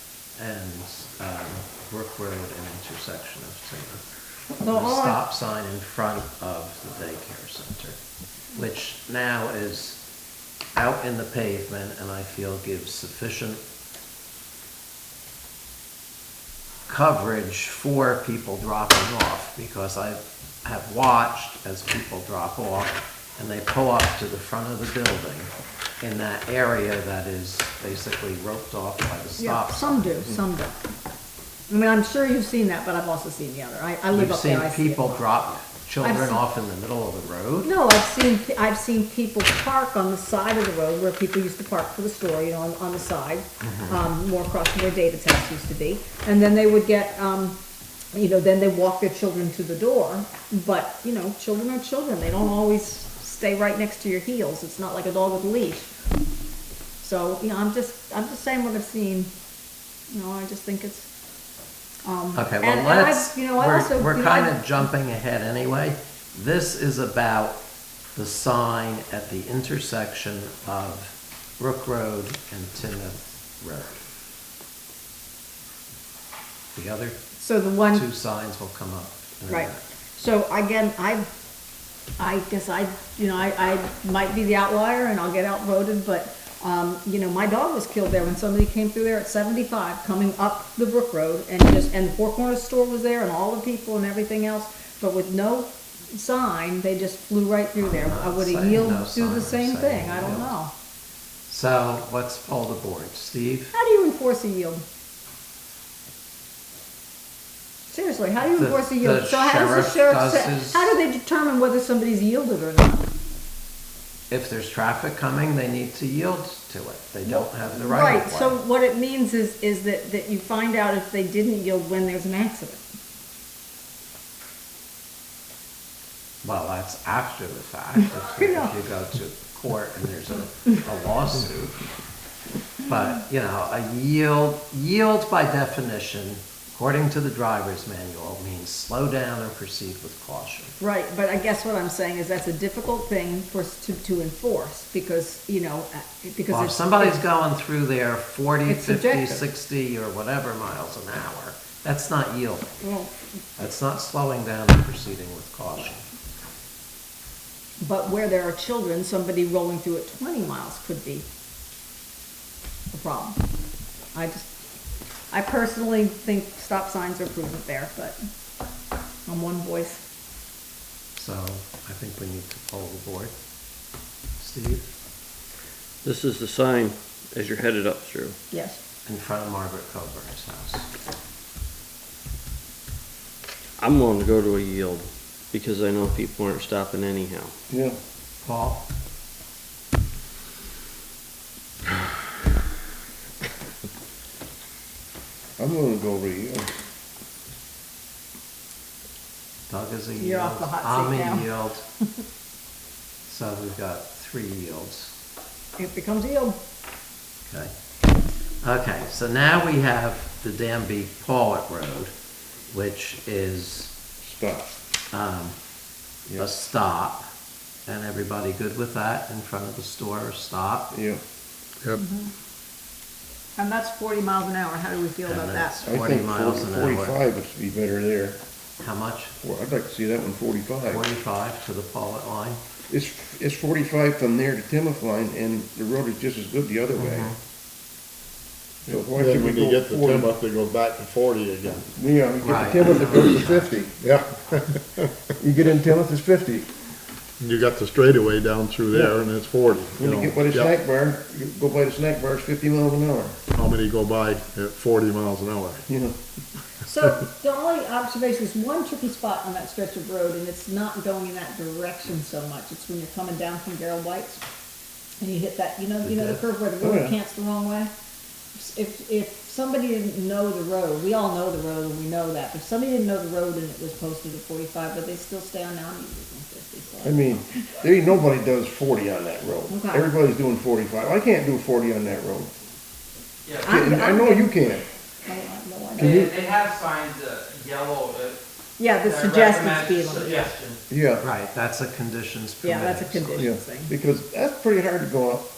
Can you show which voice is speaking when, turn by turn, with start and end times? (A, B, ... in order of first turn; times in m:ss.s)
0:00.4-0:04.0 A
0:04.6-0:05.2 B
0:04.7-0:08.0 A
0:08.6-0:10.0 A
0:10.7-0:13.6 A
0:16.9-0:30.4 A
0:29.4-0:30.8 B
0:31.7-0:35.2 B
0:34.1-0:37.7 A
0:36.0-0:36.4 B
0:37.6-0:47.6 B
0:43.6-0:44.0 A
0:48.1-0:55.9 B
0:57.0-0:59.3 B
1:00.1-1:01.1 B
1:02.1-1:04.6 B
1:02.4-1:07.6 A
1:08.2-1:14.0 A
1:16.8-1:17.2 A
1:17.4-1:18.1 B
1:17.9-1:19.8 A
1:19.5-1:21.3 B
1:22.2-1:40.7 B
1:37.8-1:40.5 A
1:41.5-1:43.7 A
1:43.7-1:44.8 B
1:47.9-1:53.1 B
1:48.4-1:51.0 A
1:54.3-1:58.6 A
1:57.2-2:02.8 B
2:06.4-2:11.8 A
2:08.0-2:08.7 B
2:12.9-2:20.7 A
2:20.8-2:27.2 B
2:26.5-2:32.8 A
2:28.7-2:29.4 B
2:32.8-2:33.1 B
2:33.6-2:36.0 A
2:37.8-2:41.3 B
2:42.9-2:43.4 B
2:44.1-2:44.5 B
2:45.3-2:48.2 B
2:49.3-2:50.0 B
2:51.2-2:53.3 A
2:54.4-2:54.9 A
2:56.0-2:58.4 C
2:58.5-2:58.8 B
2:59.1-3:00.9 A
3:03.8-3:07.6 C
3:07.7-3:08.0 D
3:08.4-3:08.8 A
3:15.6-3:16.7 D
3:19.7-3:21.8 A
3:20.2-3:21.5 B
3:23.3-3:25.1 A
3:25.8-3:26.6 B
3:27.5-3:27.7 A
3:28.6-3:32.1 A
3:32.7-3:34.0 A
3:34.2-3:34.8 D
3:35.1-3:35.6 A
3:36.4-3:37.3 A
3:37.9-3:40.9 A
3:40.9-3:41.2 D
3:41.9-3:42.3 B
3:43.6-3:45.9 B
3:45.3-3:47.2 A
3:45.9-3:48.4 D
3:48.8-3:49.4 A
3:49.4-3:51.0 D
3:50.9-3:52.6 A
3:52.9-3:57.3 D
3:57.0-3:57.4 A
3:58.9-4:00.3 D
3:58.9-4:01.9 E
4:02.0-4:04.0 D
4:02.4-4:03.7 A
4:04.0-4:05.1 E
4:05.4-4:06.7 D
4:07.4-4:10.7 E
4:10.0-4:13.4 D
4:13.5-4:15.8 E
4:15.9-4:16.2 D
4:16.8-4:24.4 B
4:25.2-4:27.9 B
4:26.0-4:26.4 A
4:26.8-4:27.2 D
4:28.6-4:37.4 B
4:37.0-4:42.5 D
4:39.7-4:40.1 B
4:43.5-4:43.7 F
4:43.6-4:44.6 B
4:43.7-4:44.9 D
4:45.2-4:46.2 B
4:46.0-4:46.4 D
4:46.0-4:48.4 F
4:48.8-4:50.5 B
4:49.0-4:50.8 F
4:50.9-4:51.2 D
4:51.2-4:53.5 A
4:52.6-4:53.9 B
4:53.4-4:55.5 D